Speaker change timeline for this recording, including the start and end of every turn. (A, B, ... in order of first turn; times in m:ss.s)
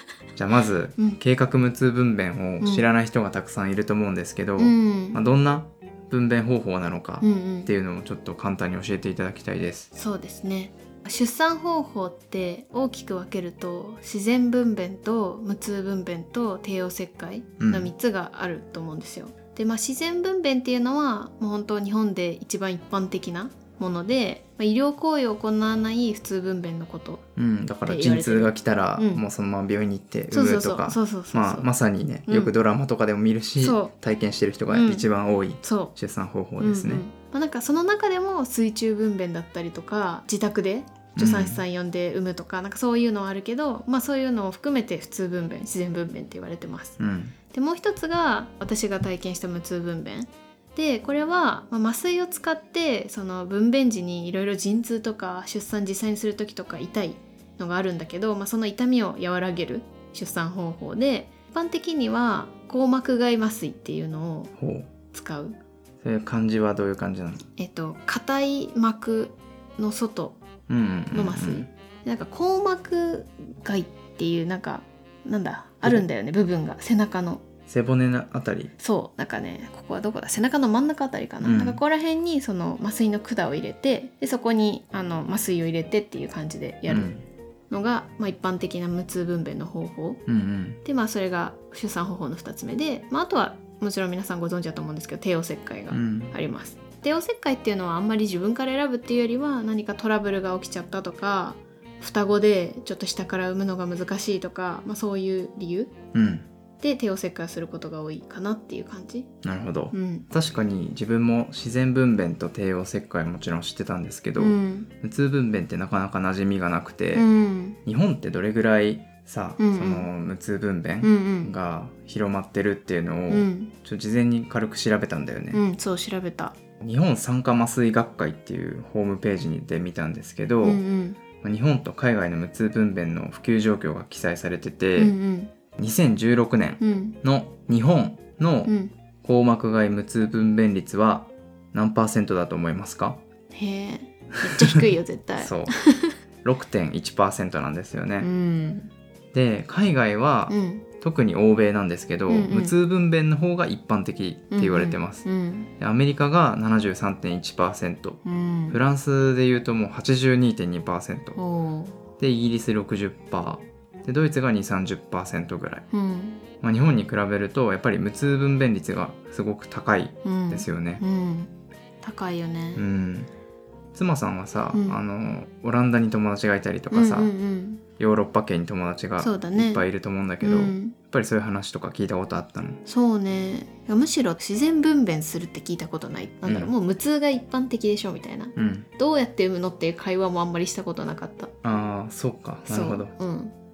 0:00.4-0:09.9 A
0:04.6-0:05.2 B
0:07.2-0:07.7 B
0:09.9-0:27.2 B
0:17.6-0:17.9 A
0:27.4-0:37.1 A
0:27.9-0:29.2 B
0:30.3-0:31.7 B
0:32.3-0:32.5 B
0:33.6-0:33.9 B
0:34.7-0:35.1 B
0:35.6-0:35.9 B
0:36.6-0:47.0 B
0:41.2-0:41.6 A
0:47.0-0:47.4 A
0:47.5-1:04.5 B
1:04.6-1:04.9 A
1:05.1-1:05.6 B
1:06.0-1:07.4 A
1:07.6-1:10.4 B
1:10.7-1:11.7 A
1:11.1-1:17.4 B
1:17.7-1:18.7 A
1:18.8-1:27.1 B
1:21.4-1:21.8 A
1:26.9-1:27.2 A
1:27.7-1:30.2 B
1:30.3-1:30.8 A
1:30.8-1:46.0 B
1:35.9-1:36.4 A
1:46.1-1:46.5 A
1:46.8-1:49.3 B
1:49.4-1:57.3 A
1:49.9-1:50.3 B
1:54.4-1:54.9 B
1:57.1-1:57.8 B
1:57.8-2:05.6 A
1:59.6-2:00.1 B
2:01.0-2:01.5 B
2:03.3-2:03.7 B
2:05.5-2:06.6 B
2:06.8-2:10.8 A
2:10.6-2:11.2 B
2:11.4-2:15.2 A
2:15.0-2:15.5 B
2:15.8-2:18.7 A
2:16.8-2:17.2 B
2:18.7-2:18.9 B
2:19.2-2:23.2 A
2:23.5-2:26.2 B
2:24.5-2:24.8 A
2:25.4-2:25.8 A
2:26.4-2:28.3 A
2:28.2-2:28.9 B
2:29.3-2:35.2 A
2:30.5-2:30.9 B
2:32.3-2:32.8 B
2:34.5-2:35.7 B
2:35.8-2:41.4 A
2:38.2-2:38.8 B
2:41.4-2:42.0 B
2:42.2-2:45.9 A
2:45.9-2:46.4 B
2:46.6-2:51.0 A
2:50.2-2:52.8 B
2:52.8-2:53.3 A
2:53.9-2:57.3 A
2:54.7-2:55.0 B
2:56.9-2:57.8 B
2:58.0-3:02.8 A
2:59.2-2:59.8 B
3:00.4-3:01.0 B
3:02.9-3:11.5 B
3:06.4-3:06.7 A
3:08.6-3:08.9 A
3:11.6-3:13.1 A
3:12.7-3:13.5 B